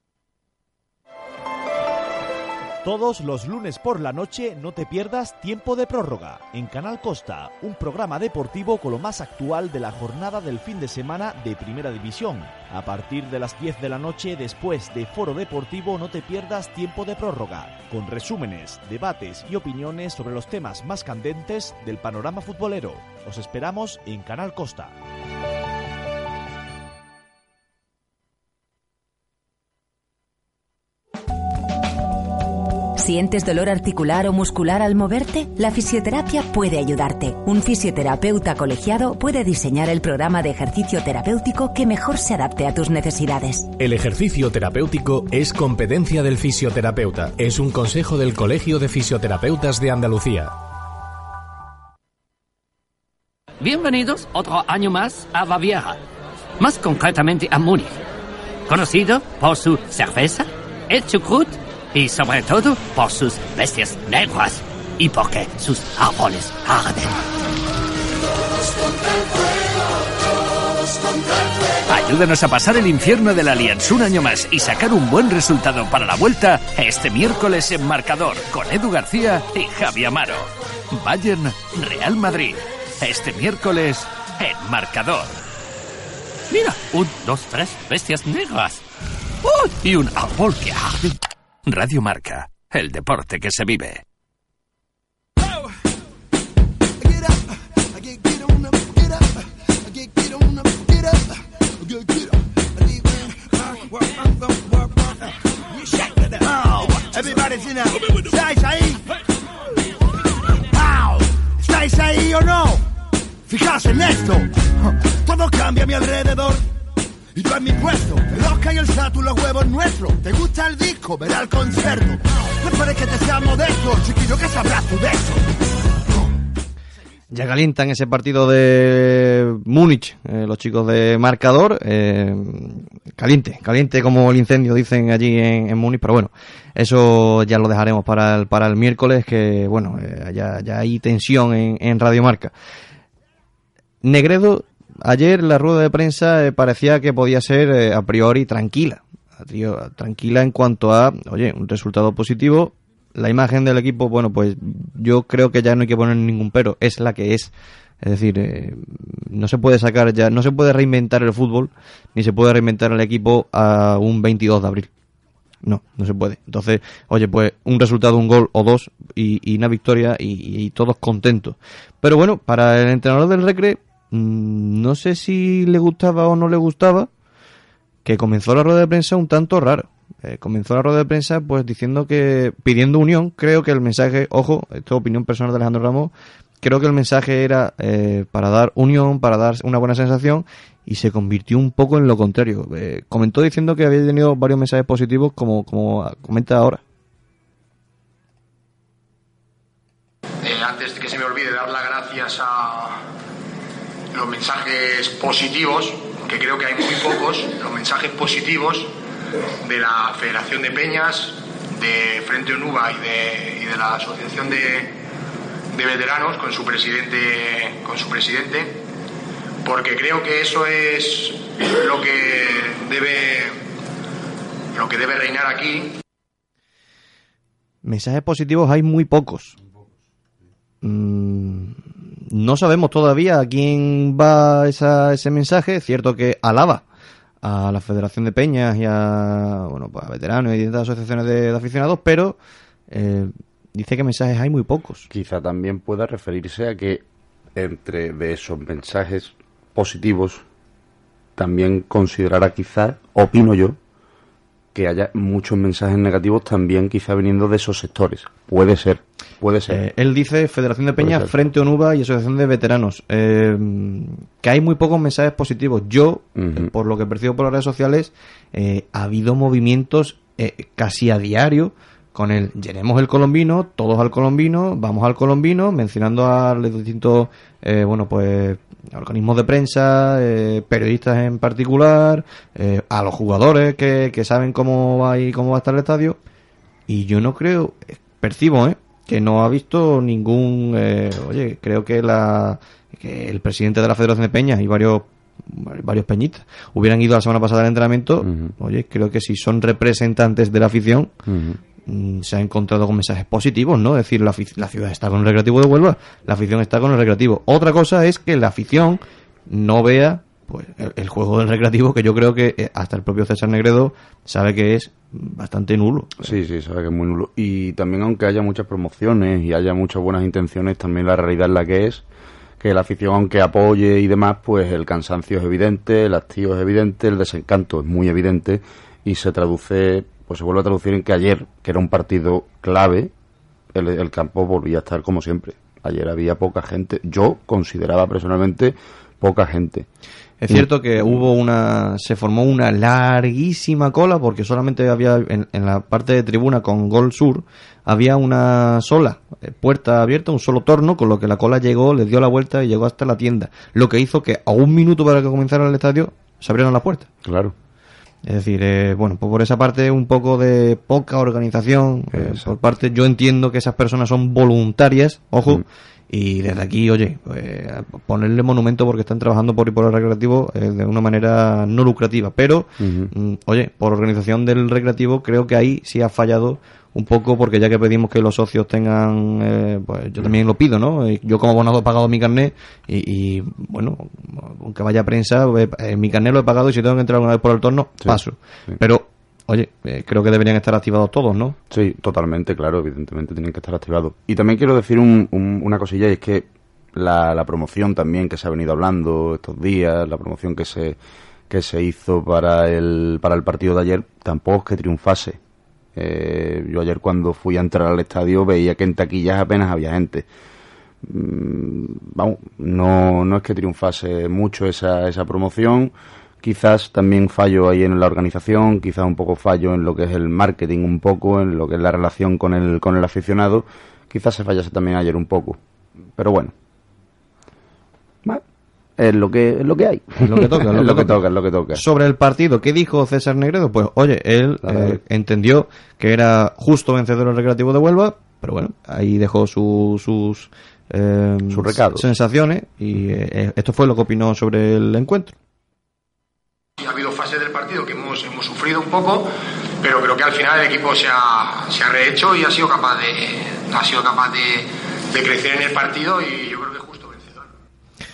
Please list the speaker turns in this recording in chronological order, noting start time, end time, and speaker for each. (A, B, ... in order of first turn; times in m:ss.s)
0:02.8-0:24.9 A
0:33.0-0:43.7 B
0:43.8-0:50.5 C
0:53.6-0:56.0 D
0:56.6-0:58.0 D
0:58.7-1:07.1 D
1:11.9-1:25.4 E
1:26.5-1:28.4 D
1:28.4-1:28.8 E
1:29.4-1:31.1 E
1:31.6-1:34.0 E
1:37.0-1:39.3 F
1:39.9-1:45.2 F
1:45.7-1:49.0 F
1:50.6-1:52.8 F
1:53.5-1:56.6 F
1:57.3-2:05.4 F
2:07.3-2:22.5 G
2:24.0-2:37.5 G
2:38.0-2:44.9 G
2:45.6-2:57.1 G
2:58.0-3:06.1 G
3:06.6-3:16.8 G
3:20.4-3:23.0 H
3:24.1-3:28.9 H
3:29.6-3:34.9 H
3:35.7-3:38.8 H
3:39.6-3:43.6 H
3:44.7-3:45.9 H
3:47.8-3:49.6 G
3:50.8-3:56.8 G
3:57.4-4:02.4 G
4:02.9-4:05.1 G
4:05.1-4:07.0 I
4:07.5-4:10.4 I
4:11.4-4:13.8 I
4:14.7-4:19.8 I
4:19.7-4:46.2 G
4:21.0-4:21.3 I
4:26.4-4:26.7 I
4:46.9-5:01.1 G
4:58.2-4:58.5 I
5:01.3-5:01.6 I
5:01.8-5:16.3 G
5:16.2-5:22.0 I
5:22.6-5:33.1 I
5:33.7-5:39.9 I
5:40.4-5:57.1 G
5:57.2-5:57.5 I
5:58.2-6:31.6 G
6:02.1-6:02.5 I
6:12.8-6:13.1 I
6:31.7-6:41.0 I
6:41.5-6:45.4 I
6:46.0-6:50.2 I
6:51.0-7:05.6 I
7:06.1-7:06.5 I
7:09.0-7:11.8 I
7:10.2-7:11.2 G
7:11.7-7:25.3 G
7:14.6-7:15.0 I
7:21.5-7:22.0 I
7:26.8-7:29.3 H
7:29.8-7:37.4 H